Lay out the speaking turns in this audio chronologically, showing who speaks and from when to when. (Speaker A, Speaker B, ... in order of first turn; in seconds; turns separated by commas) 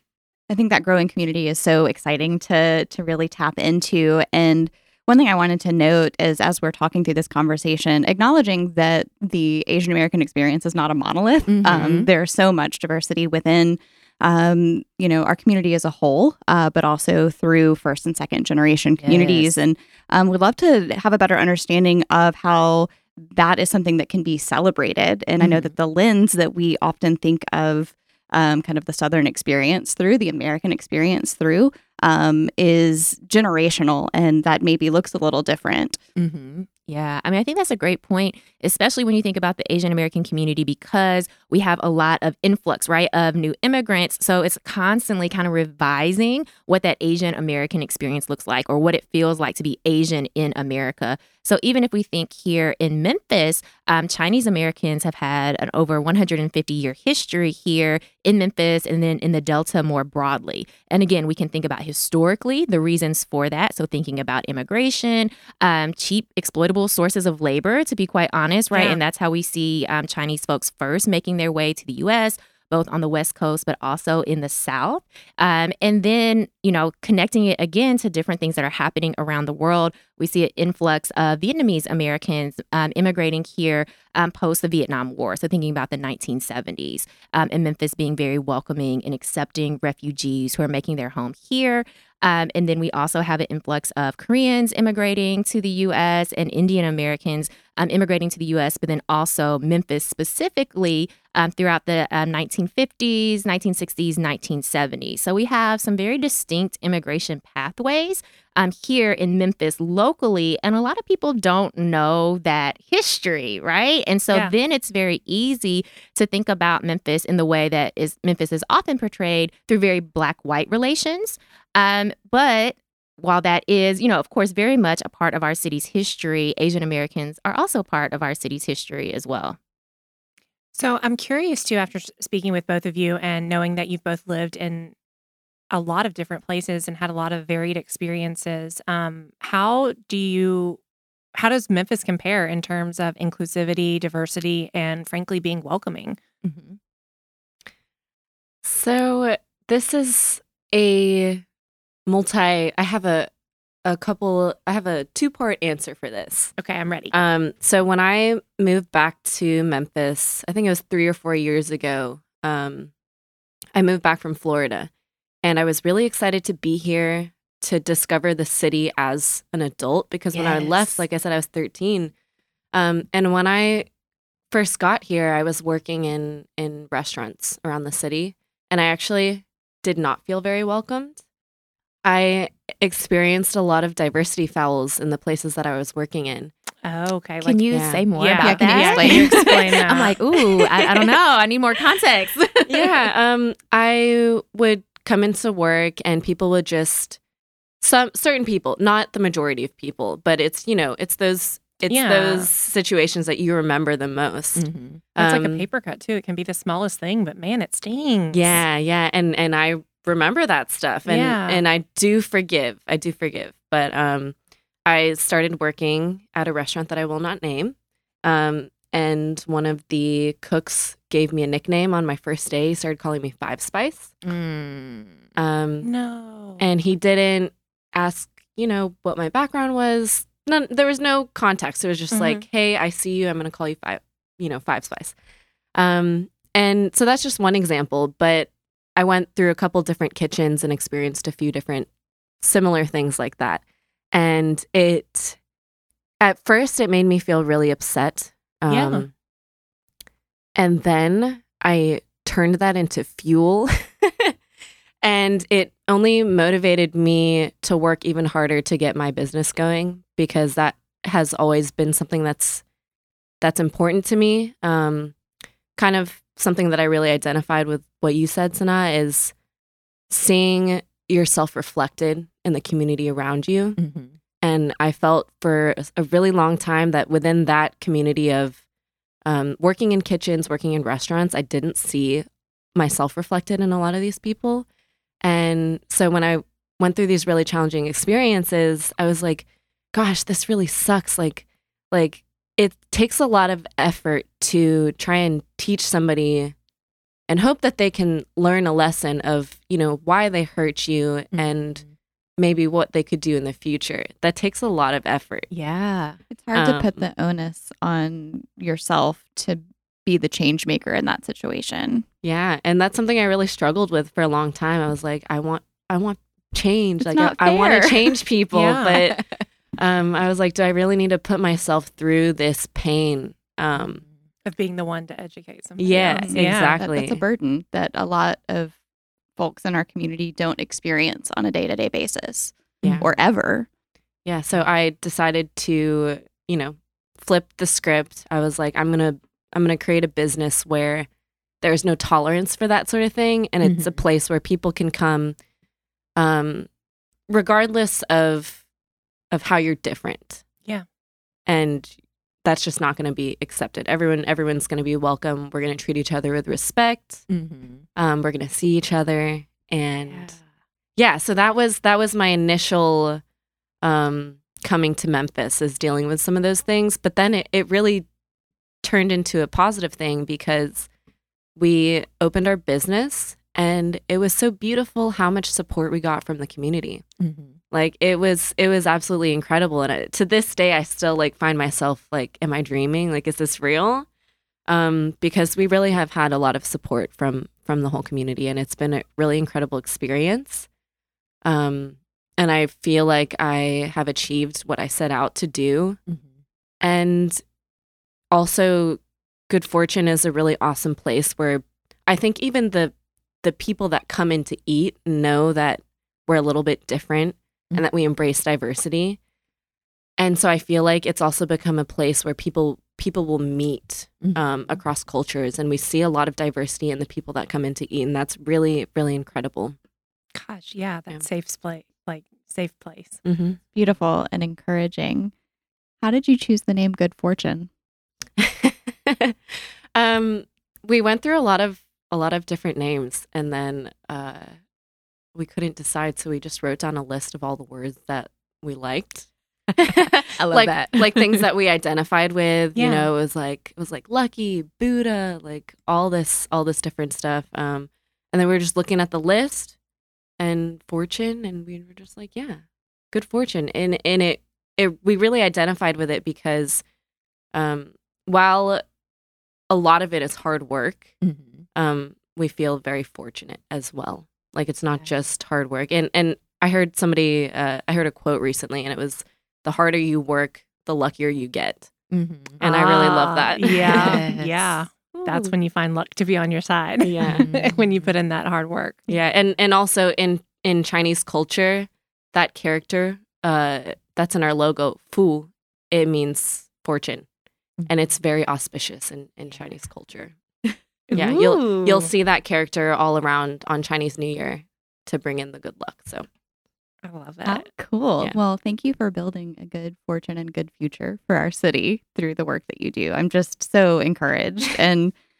Speaker A: 0.5-36.0, Speaker B: 11.5-12.1, Speaker B: 19.0-19.5, Speaker B: 25.4-25.7, Speaker B: 36.2-129.6, Speaker C: 68.7-69.0, Speaker C: 130.7-134.9, Speaker C: 135.7-140.8, Speaker C: 141.3-146.2, Speaker B: 146.4-146.8, Speaker D: 148.6-151.4, Speaker D: 152.1-153.3, Speaker D: 153.8-156.5, Speaker C: 156.6-157.1, Speaker D: 157.1-162.9, Speaker D: 163.7-164.9, Speaker D: 165.4-172.1, Speaker B: 170.3-171.0, Speaker D: 172.7-173.9, Speaker D: 174.5-181.2, Speaker D: 182.0-186.5, Speaker C: 186.8-190.1, Speaker B: 187.4-193.0, Speaker D: 187.7-188.0, Speaker A: 188.4-189.5, Speaker D: 192.7-197.2, Speaker D: 197.8-205.6, Speaker C: 201.9-202.5, Speaker B: 204.6-205.0, Speaker C: 205.2-208.6, Speaker D: 208.3-224.2, Speaker C: 211.1-211.6, Speaker B: 224.2-225.2, Speaker D: 225.3-225.9, Speaker C: 225.8-226.6, Speaker D: 226.6-235.1, Speaker C: 232.1-232.4, Speaker D: 235.7-245.4, Speaker D: 246.2-249.1, Speaker C: 248.7-249.1, Speaker D: 250.6-254.3, Speaker D: 255.0-262.6, Speaker D: 263.4-265.1, Speaker D: 265.8-269.3, Speaker D: 270.1-273.8, Speaker B: 273.8-274.1, Speaker D: 274.4-278.6, Speaker D: 279.2-284.6, Speaker D: 285.2-296.5, Speaker D: 297.3-301.8, Speaker B: 301.3-301.9, Speaker D: 302.4-305.5, Speaker B: 305.5-306.2, Speaker A: 306.3-312.0, Speaker D: 306.5-307.0, Speaker D: 312.2-319.2, Speaker A: 317.0-318.2, Speaker C: 318.5-319.0, Speaker D: 319.8-324.0, Speaker B: 323.8-324.1, Speaker C: 324.4-326.8, Speaker D: 325.8-327.2, Speaker A: 326.2-328.8, Speaker A: 329.4-333.7, Speaker D: 332.8-333.1, Speaker D: 334.2-341.1, Speaker D: 341.6-345.4, Speaker B: 343.6-344.0, Speaker D: 346.2-346.7, Speaker D: 347.3-348.6, Speaker D: 349.3-350.4, Speaker D: 351.4-357.2, Speaker B: 357.3-357.8, Speaker D: 357.9-360.4, Speaker B: 360.0-360.4, Speaker D: 361.0-363.2, Speaker D: 363.8-368.1, Speaker D: 368.8-370.9, Speaker D: 371.6-377.0, Speaker B: 377.2-377.6, Speaker D: 377.7-384.1, Speaker D: 384.7-390.7, Speaker D: 391.4-396.0, Speaker D: 396.8-397.4, Speaker D: 398.3-409.2, Speaker D: 410.2-419.8, Speaker B: 414.2-414.8, Speaker C: 420.3-423.2, Speaker D: 423.2-423.6, Speaker A: 423.7-425.3, Speaker A: 426.0-427.7, Speaker D: 428.4-434.5, Speaker D: 435.3-449.8, Speaker B: 439.8-441.4, Speaker C: 442.7-443.1, Speaker D: 450.4-456.8, Speaker D: 457.5-458.8, Speaker D: 459.7-461.1, Speaker B: 461.2-461.6, Speaker D: 461.7-471.9, Speaker B: 472.1-472.6, Speaker D: 472.6-474.2, Speaker C: 472.6-479.0, Speaker B: 473.8-475.5, Speaker D: 477.0-477.5, Speaker B: 477.3-478.1, Speaker D: 479.1-487.2, Speaker D: 487.9-490.4, Speaker B: 491.1-492.1, Speaker D: 491.1-496.2, Speaker C: 497.0-497.7, Speaker B: 497.4-498.3, Speaker A: 498.2-505.1